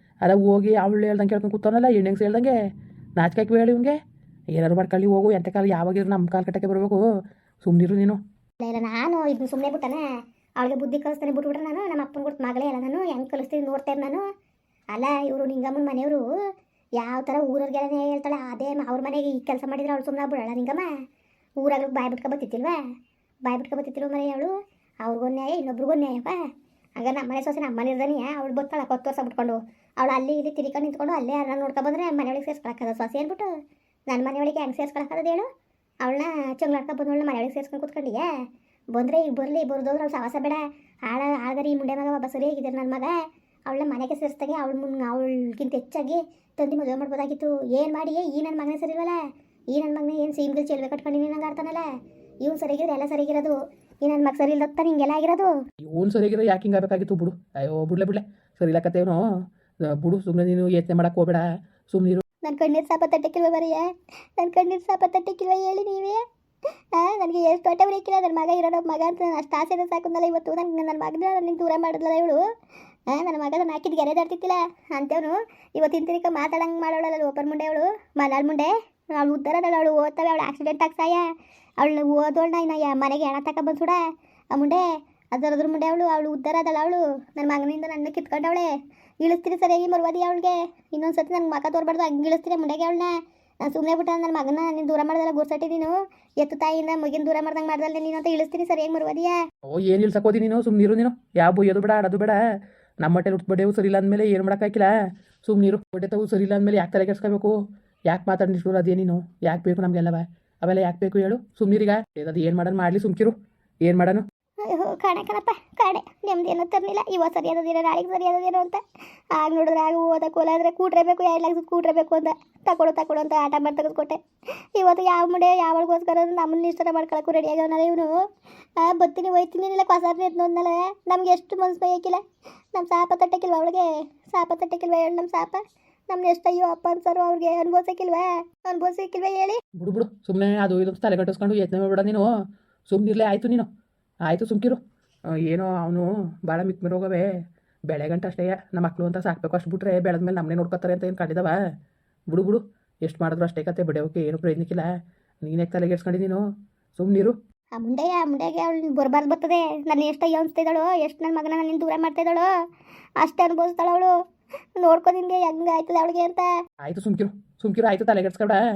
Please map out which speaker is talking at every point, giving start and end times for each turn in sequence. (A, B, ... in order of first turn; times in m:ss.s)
0:00.2-0:02.6 A
0:03.2-0:04.0 A
0:04.5-0:07.0 A
0:07.6-0:08.2 A
0:08.6-0:10.0 B
0:10.6-0:14.2 B
0:14.9-0:16.2 B
0:17.0-0:20.9 B
0:21.6-0:22.8 B
0:23.4-0:26.4 B
0:27.0-0:33.5 B
0:34.1-0:35.4 B
0:36.0-0:38.3 B
0:38.9-0:43.1 B
0:43.7-0:49.2 B
0:49.7-0:51.9 B
0:52.4-0:55.5 B
0:55.8-0:59.2 A
0:59.8-1:02.2 A
1:02.4-1:06.2 B
1:06.9-1:12.4 B
1:13.1-1:21.2 B
1:21.8-1:24.0 B
1:24.5-1:28.7 B
1:29.2-1:39.4 B
1:39.7-1:42.4 A
1:43.0-1:44.9 A
1:45.4-1:47.5 A
1:48.1-1:54.2 A
1:54.6-1:58.8 B
1:59.3-2:04.2 B
2:04.8-2:08.1 B
2:08.8-2:12.2 B
2:12.7-2:19.6 B
2:19.8-2:22.3 A
2:22.9-2:23.7 A
2:24.2-2:24.8 A
2:25.4-2:27.3 A
2:27.9-2:31.5 A
2:32.3-2:34.9 A
2:35.4-2:36.4 A
2:37.0-2:37.4 A
2:37.8-2:42.5 B
2:43.2-2:44.1 B
2:44.8-2:46.5 B
2:46.8-2:48.6 A